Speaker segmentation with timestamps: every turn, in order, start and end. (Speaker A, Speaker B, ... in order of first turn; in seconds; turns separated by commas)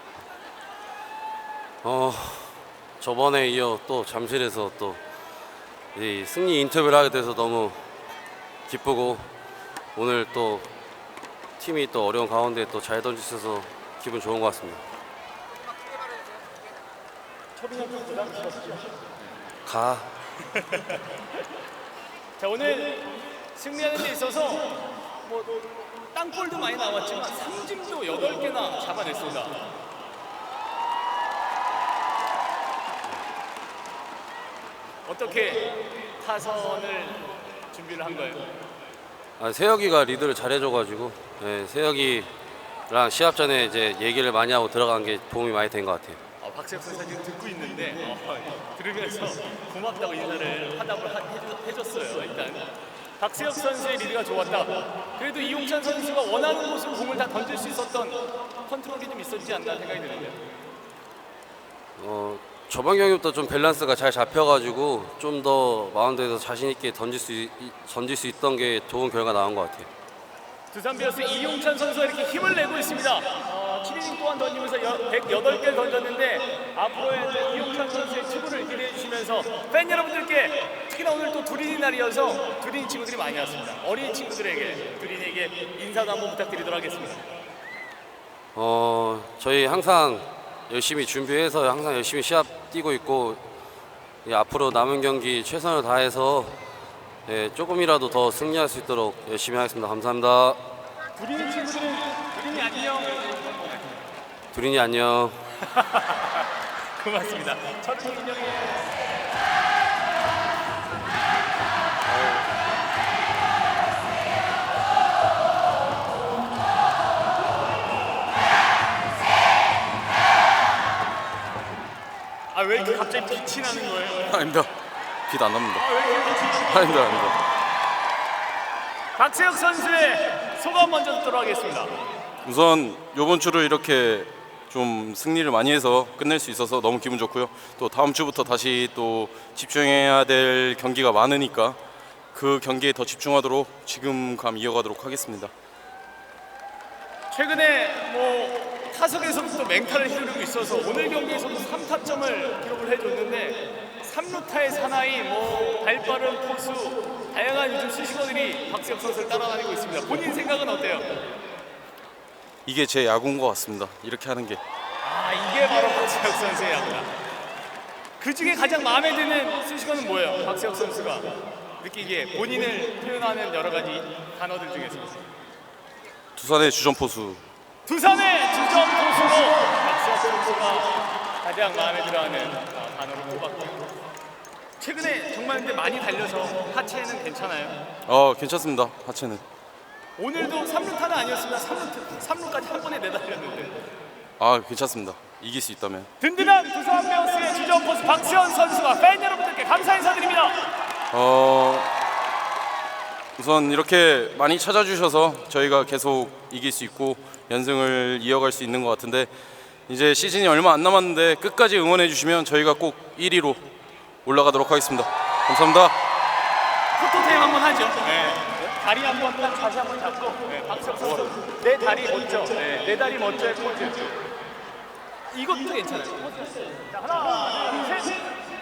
Speaker A: 1.8-5.0, Speaker A: 6.0-7.8, Speaker A: 8.7-9.3, Speaker A: 9.9-10.7, Speaker A: 11.6-14.8, Speaker B: 17.6-18.9, Speaker A: 19.6-20.1, Speaker B: 22.4-29.6, Speaker B: 35.1-38.4, Speaker A: 39.4-42.3, Speaker A: 42.9-46.2, Speaker B: 46.4-52.7, Speaker B: 53.2-60.4, Speaker A: 62.0-69.9, Speaker B: 70.7-87.3, Speaker A: 88.5-93.4, Speaker A: 94.2-96.6, Speaker A: 97.3-100.6, Speaker B: 101.2-103.8, Speaker A: 104.5-105.4, Speaker B: 105.6-108.7, Speaker B: 122.5-124.3, Speaker C: 124.3-124.7, Speaker C: 125.3-125.8, Speaker B: 125.8-127.0, Speaker C: 126.6-127.4, Speaker B: 129.2-131.9, Speaker C: 132.4-141.8, Speaker C: 142.3-145.5, Speaker B: 147.3-161.2, Speaker C: 162.7-164.6, Speaker B: 165.0-167.1, Speaker B: 168.2-175.2, Speaker C: 176.4-177.4, Speaker B: 177.9-183.8, Speaker B: 184.8-187.8, Speaker C: 188.1-189.4, Speaker B: 190.2-193.8, Speaker C: 194.4-196.1, Speaker B: 196.2-200.6, Speaker C: 201.1-201.9, Speaker C: 203.4-209.3, Speaker C: 209.9-213.7, Speaker C: 214.2-216.0, Speaker B: 217.0-224.2, Speaker B: 225.3-228.3